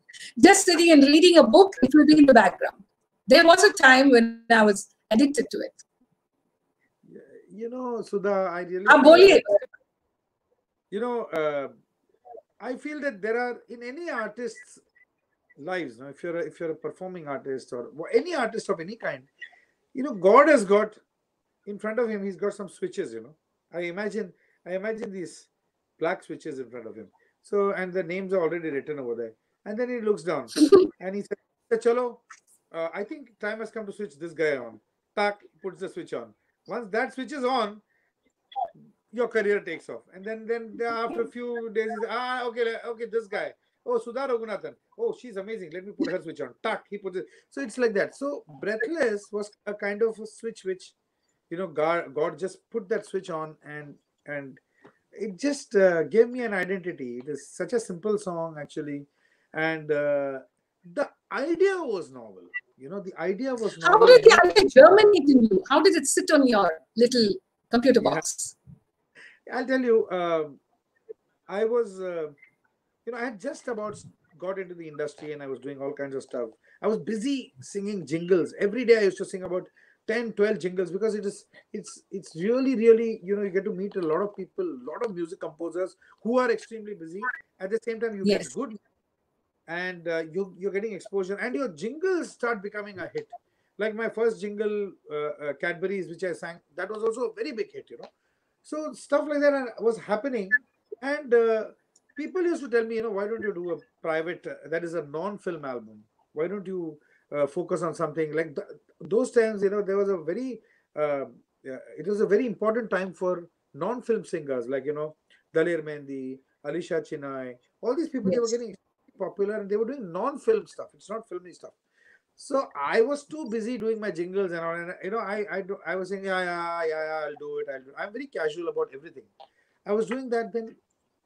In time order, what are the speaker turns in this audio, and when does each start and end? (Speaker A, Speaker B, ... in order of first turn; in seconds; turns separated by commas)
Speaker A: 0.4-5.8, Speaker B: 7.0-9.4, Speaker A: 8.9-9.5, Speaker B: 10.9-11.7, Speaker B: 12.6-14.8, Speaker B: 15.6-19.3, Speaker B: 19.9-21.0, Speaker B: 21.6-37.8, Speaker B: 39.1-50.9, Speaker B: 51.5-54.6, Speaker B: 55.1-64.4, Speaker A: 63.8-68.5, Speaker B: 69.5-70.6, Speaker B: 71.5-72.3, Speaker B: 73.0-88.8, Speaker A: 88.2-88.5, Speaker B: 89.7-98.1, Speaker B: 98.6-121.7, Speaker A: 118.2-118.5, Speaker B: 122.4-129.3, Speaker B: 129.8-130.8